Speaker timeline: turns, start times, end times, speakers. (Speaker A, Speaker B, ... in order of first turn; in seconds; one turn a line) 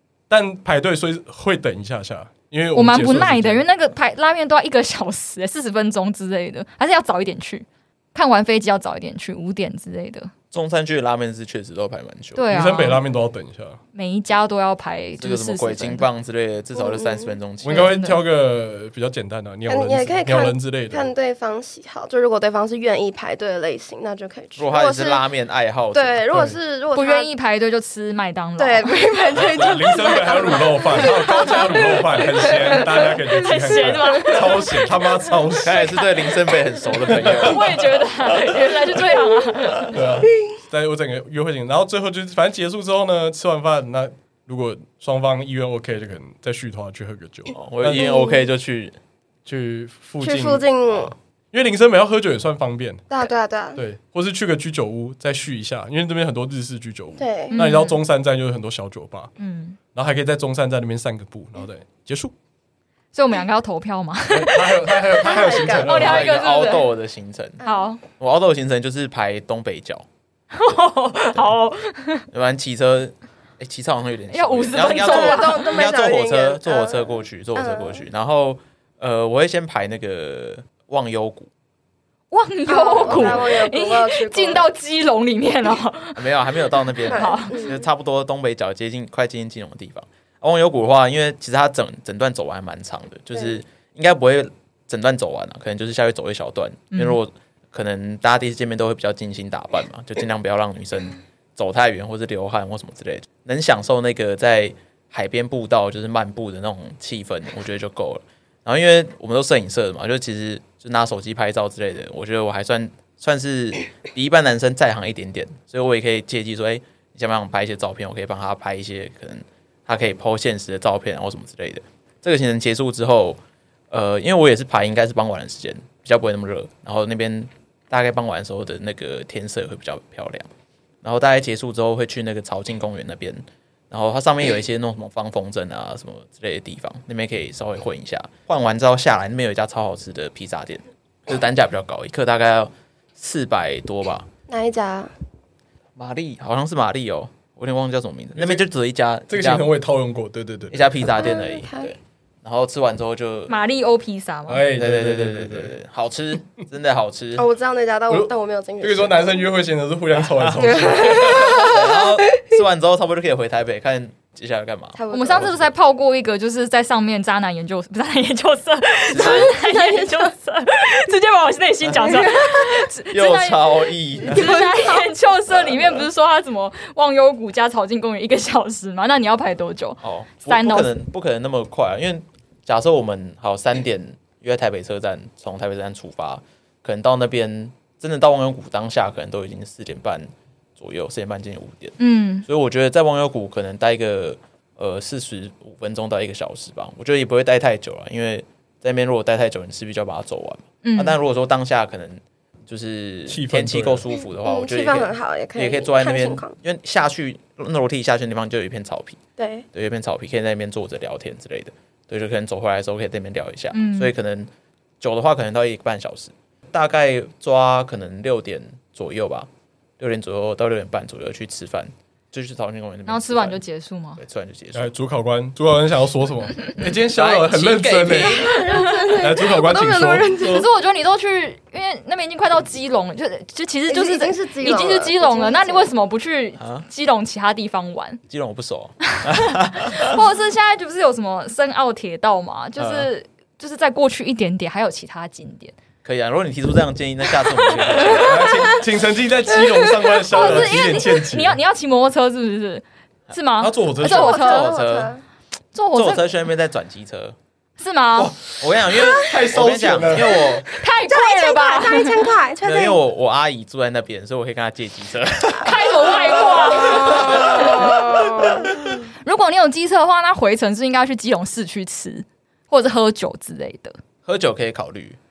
Speaker A: 0.3-3.6
Speaker B: 2.8-10.3
Speaker C: 10.5-12.5
Speaker B: 12.3-13.0
Speaker A: 12.5-13.8
Speaker B: 13.9-16.1
Speaker C: 15.2-17.9
Speaker D: 16.8-17.3
Speaker A: 17.6-21.1
Speaker B: 17.7-18.2
Speaker D: 19.7-25.2
Speaker C: 24.6-26.6
Speaker D: 25.9-27.3
Speaker B: 26.9-29.0
Speaker D: 28.6-33.1
Speaker A: 29.4-35.9
Speaker B: 32.7-34.9
Speaker C: 35.6-37.8
Speaker A: 37.1-37.5
Speaker B: 37.2-40.0
Speaker A: 39.9-48.1
Speaker C: 47.5-49.0
Speaker D: 48.0-48.4
Speaker A: 49.5-53.1
Speaker D: 50.2-51.1
Speaker D: 53.1-53.8
Speaker A: 53.8-59.3
Speaker D: 57.2-57.6
Speaker B: 57.5-58.0
Speaker B: 59.4-59.8
Speaker A: 59.9-62.3
Speaker B: 63.1-66.9
Speaker A: 64.3-66.4
Speaker D: 65.2-65.9
Speaker C: 65.9-70.1
Speaker B: 67.6-68.0
Speaker B: 70.5-72.3
Speaker C: 72.3-81.5
Speaker B: 74.3-75.8
Speaker D: 74.8-78.0
Speaker B: 82.3-87.7
Speaker D: 82.7-84.7
Speaker C: 86.2-123.4
Speaker D: 87.1-87.8
Speaker B: 96.9-97.2
Speaker C: 123.9-130.5
Speaker C: 131.0-144.3
Speaker D: 144.5-145.1
Speaker C: 146.0-149.7
Speaker A: 148.4-148.6
Speaker A: 149.3-151.1
Speaker C: 150.7-153.5
Speaker D: 151.2-151.9
Speaker B: 153.5-154.6
Speaker A: 154.5-155.7
Speaker C: 154.8-157.5
Speaker D: 157.4-159.4
Speaker A: 158.8-161.8
Speaker C: 160.2-165.7
Speaker D: 160.7-162.4
Speaker D: 165.0-165.5
Speaker B: 165.1-180.9
Speaker C: 169.1-169.6
Speaker D: 169.1-170.3
Speaker C: 171.8-172.3
Speaker D: 172.0-172.7
Speaker C: 173.1-174.6
Speaker D: 174.3-175.1
Speaker C: 180.0-191.9
Speaker B: 192.0-192.5
Speaker C: 192.5-209.2
Speaker B: 200.8-201.2
Speaker A: 203.3-204.1
Speaker D: 204.4-206.5
Speaker D: 209.4-209.7
Speaker C: 209.7-223.6
Speaker B: 213.7-214.1
Speaker B: 223.1-224.2
Speaker C: 224.2-224.9
Speaker A: 224.7-228.6
Speaker C: 227.1-228.6
Speaker D: 228.2-230.6
Speaker B: 228.7-229.1
Speaker A: 229.1-230.6
Speaker B: 230.4-238.2
Speaker D: 233.9-235.9
Speaker C: 238.3-240.2
Speaker B: 239.1-245.8
Speaker C: 242.8-243.1
Speaker C: 246.0-248.5
Speaker A: 248.2-251.6
Speaker B: 250.3-254.8
Speaker A: 253.6-254.4
Speaker D: 254.0-255.2
Speaker C: 254.1-255.1
Speaker B: 255.7-256.2
Speaker C: 255.9-257.4
Speaker B: 257.8-258.3
Speaker A: 258.2-260.5
Speaker C: 258.6-260.7
Speaker B: 260.8-262.3
Speaker D: 261.0-263.0
Speaker C: 262.6-266.2
Speaker B: 265.6-267.7
Speaker D: 266.7-268.8
Speaker A: 267.0-267.7
Speaker C: 267.1-268.1
Speaker B: 269.2-274.0
Speaker C: 274.2-275.2